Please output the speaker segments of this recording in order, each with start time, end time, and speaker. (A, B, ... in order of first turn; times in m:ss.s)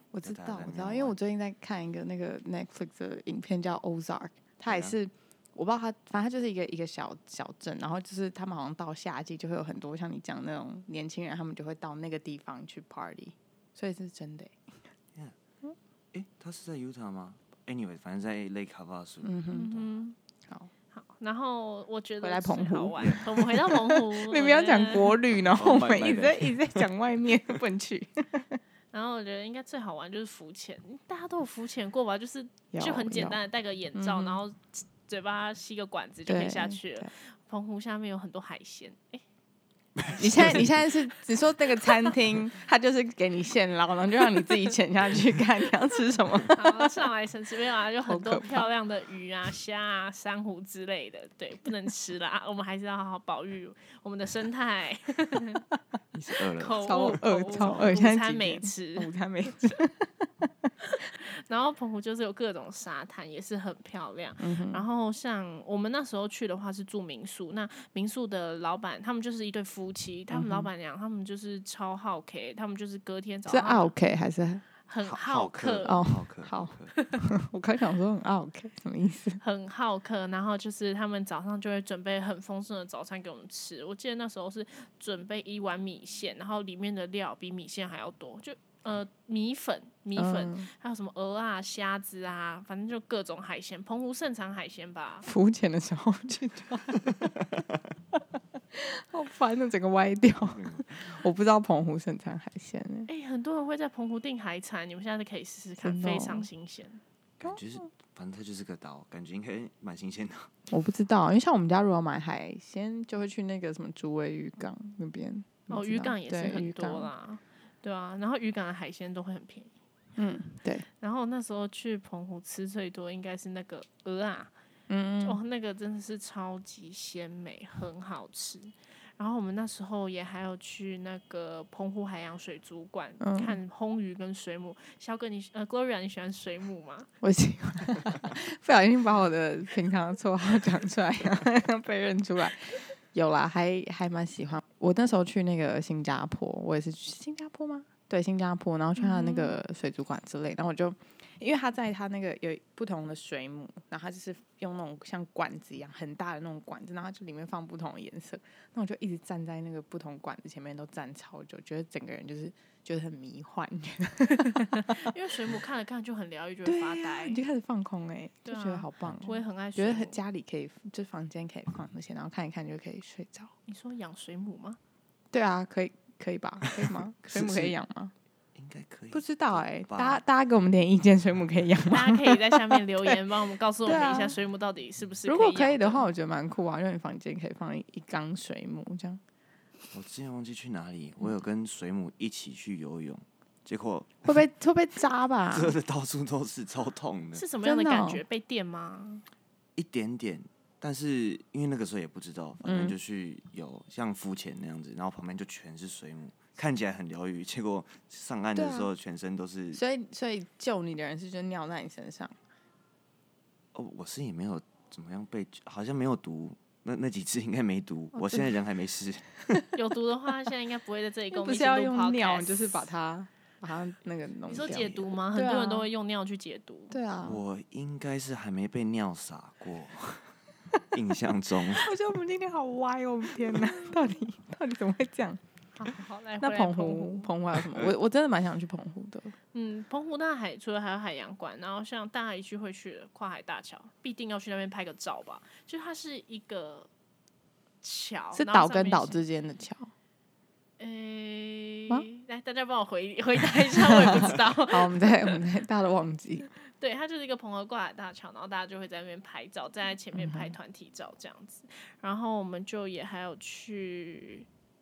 0:00.1-0:14.8 A
0:00.2-0:01.2 B
0:04.7-0:05.0 B
0:16.1-0:19.8 B
0:19.2-0:19.8 A
0:19.5-0:20.2 C
0:20.9-0:25.2 C
0:22.2-0:28.6 A
0:23.0-0:23.2 B
0:25.3-0:27.0 B
0:28.9-0:39.2 C
0:32.7-0:33.4 A
0:34.0-0:34.4 A
0:36.3-0:37.1 A
0:40.1-0:40.6 B
0:40.2-0:46.9 A
0:40.2-0:40.6 C
0:46.6-0:55.6 C
0:48.1-0:48.7 A
0:56.1-0:58.0 B
0:56.6-0:59.1 C
0:56.8-1:00.7 A
1:01.2-1:13.9 C
1:04.4-1:04.8 A
1:10.3-1:10.7 A
1:13.5-1:14.6 A
1:14.9-1:16.0 C
1:15.0-1:16.9 B
1:15.8-1:19.4 A
1:19.4-1:35.3 C
1:30.2-1:30.7 A
1:35.2-1:37.4 A
1:38.1-1:43.1 A
1:40.4-1:41.1 B
1:43.1-1:47.0 C
1:45.8-1:46.5 A
1:47.4-1:50.5 B
1:50.7-1:57.1 A
1:55.7-1:59.7 C
2:00.2-2:00.9 A
2:01.0-2:04.5 C
2:04.9-2:05.4 A
2:05.2-2:17.1 C
2:13.2-2:13.6 A
2:17.2-2:45.1 A
2:29.0-2:29.6 C
2:44.4-2:47.4 C
2:46.6-2:53.5 A
2:48.4-2:50.2 C
2:53.7-2:54.8 C
2:55.3-2:58.1 A
2:56.7-2:57.8 B
2:58.6-3:00.2 B
2:59.1-3:03.2 A
3:01.9-3:06.1 C
3:03.8-3:04.4 A
3:05.2-3:09.2 A
3:09.9-3:14.3 B
3:14.2-3:15.8 A
3:15.5-3:17.5 B
3:17.3-3:19.2 C
3:17.6-3:18.2 A
3:19.8-3:29.8 B
3:22.6-3:23.0 A
3:28.6-3:28.9 A
3:29.7-3:32.4 A
3:33.7-3:39.5 B
3:38.1-3:38.5 A
3:39.7-3:42.9 C
3:41.3-3:45.9 A
3:44.5-3:47.0 C
3:46.9-3:47.4 A
3:47.2-3:51.9 B
3:51.7-3:55.4 A
3:55.8-3:57.3 C
3:56.4-3:59.4 A
3:59.5-4:06.9 C
4:07.8-4:09.2 C
4:08.3-4:09.9 A
4:10.8-4:15.4 C
4:13.8-4:16.5 A
4:16.8-4:24.5 C
4:20.2-4:20.6 A